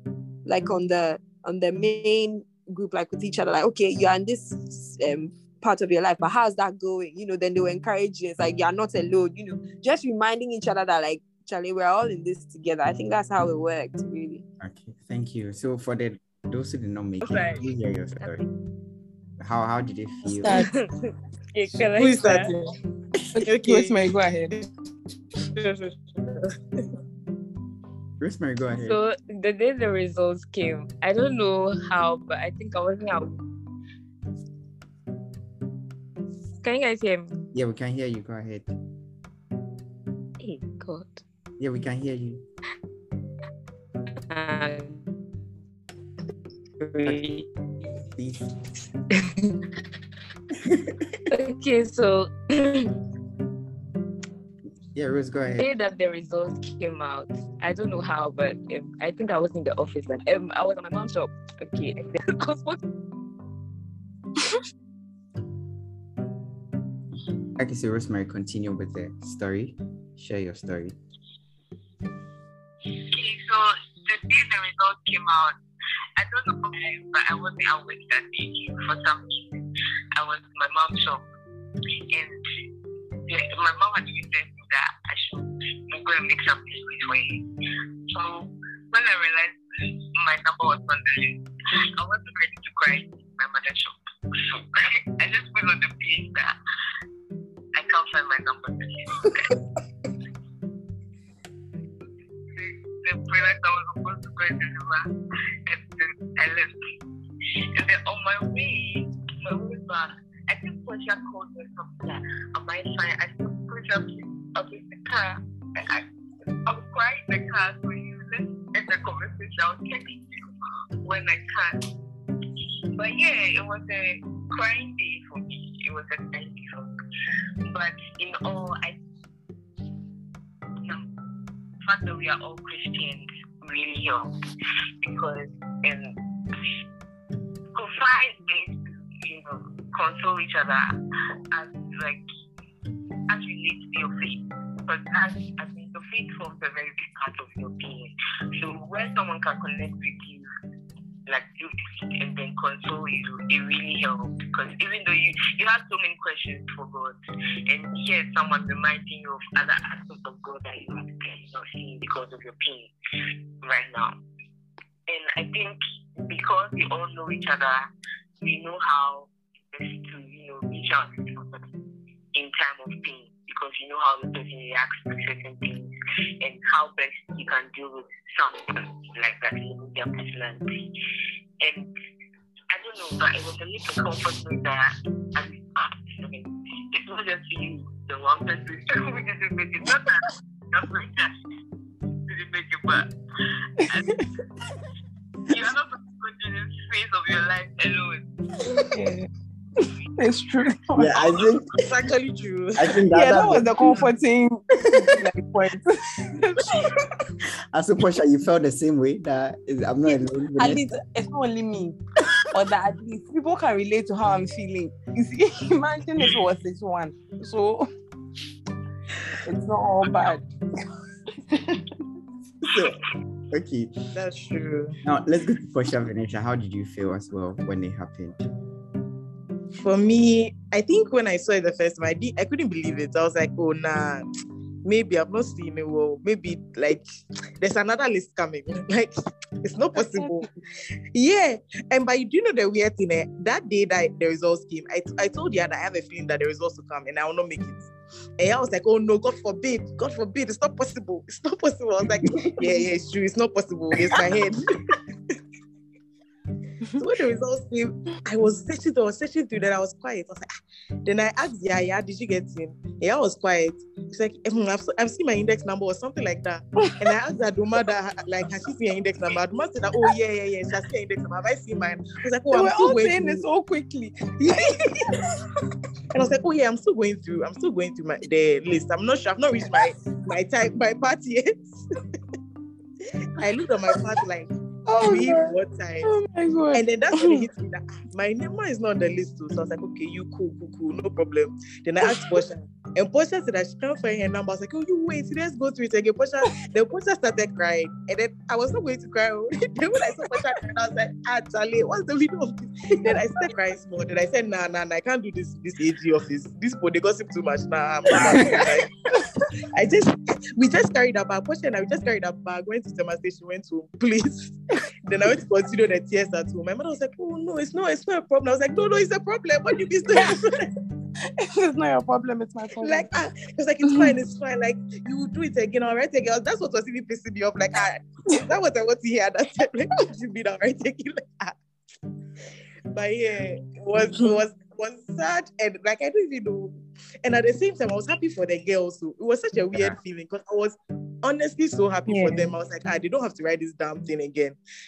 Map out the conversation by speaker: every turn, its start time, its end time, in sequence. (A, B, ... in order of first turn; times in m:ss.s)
0:00.4-0:14.4 A
0:14.6-0:18.4 B
0:17.2-0:17.6 C
0:19.4-0:20.6 B
0:20.4-0:20.7 D
0:20.4-0:22.5 C
0:21.9-0:22.7 E
0:23.3-0:24.6 D
0:23.3-0:24.7 E
0:28.2-0:29.0 B
0:28.7-0:33.4 C
0:36.6-0:37.2 C
0:37.5-0:38.7 B
0:40.4-0:41.2 C
0:41.6-0:42.4 B
0:44.3-0:45.0 C
0:46.8-0:47.4 C
0:47.0-0:47.3 B
0:48.1-0:48.4 B
0:49.1-0:49.5 C
0:50.7-0:51.0 B
0:51.3-0:52.9 C
0:54.9-0:55.7 B
0:55.5-1:02.8 C
1:07.6-1:11.0 B
1:13.1-1:15.6 F
1:16.2-1:21.3 F
1:22.1-1:22.4 F
1:23.3-1:27.4 F
1:28.1-1:29.6 F
1:30.2-1:31.4 F
1:32.0-1:36.6 F
1:37.7-1:39.6 F
1:42.5-1:45.1 F
1:45.7-1:46.7 F
1:47.8-1:56.0 F
1:56.7-2:00.5 F
2:01.0-2:01.8 F
2:03.0-2:06.9 F
2:07.7-2:09.0 F
2:11.8-2:14.3 F
2:15.0-2:16.2 F
2:17.7-2:20.9 F
2:21.5-2:22.2 F
2:23.3-2:30.5 F
2:31.3-2:37.2 F
2:37.7-2:42.9 F
2:43.6-2:44.2 F
2:45.1-2:47.8 F
2:48.4-2:51.7 F
2:52.3-3:00.9 F
3:01.6-3:01.9 F
3:02.7-3:11.4 F
3:12.3-3:13.1 F
3:13.9-3:14.2 F
3:15.5-3:18.2 F
3:18.8-3:19.3 D
3:19.8-3:21.1 D
3:21.0-3:21.9 B
3:21.7-3:22.9 E
3:22.8-3:23.9 B
3:23.1-3:26.9 D
3:27.7-3:30.9 B
3:30.6-3:32.0 D
3:32.5-3:37.9 D
3:39.4-3:40.5 D
3:42.6-3:43.0 B
3:43.5-3:43.9 B
3:44.1-3:45.0 E
3:45.0-3:48.4 B
3:49.8-3:54.3 E
3:54.8-3:57.0 E
3:57.6-4:00.5 E
4:00.0-4:00.4 D
4:01.1-4:14.9 E
4:17.0-4:20.4 E
4:21.0-4:33.4 E
4:32.5-4:35.2 D
4:36.1-4:41.8 E
4:43.3-4:46.1 E
4:44.9-4:47.5 D
4:46.7-5:08.9 E
4:52.1-4:52.4 D
5:08.1-5:08.7 B
5:09.7-5:20.7 E
5:21.4-5:23.1 D
5:22.8-5:31.6 E
5:23.8-5:24.1 D
5:32.9-5:44.6 E
5:39.7-5:40.0 B
5:42.0-5:42.5 D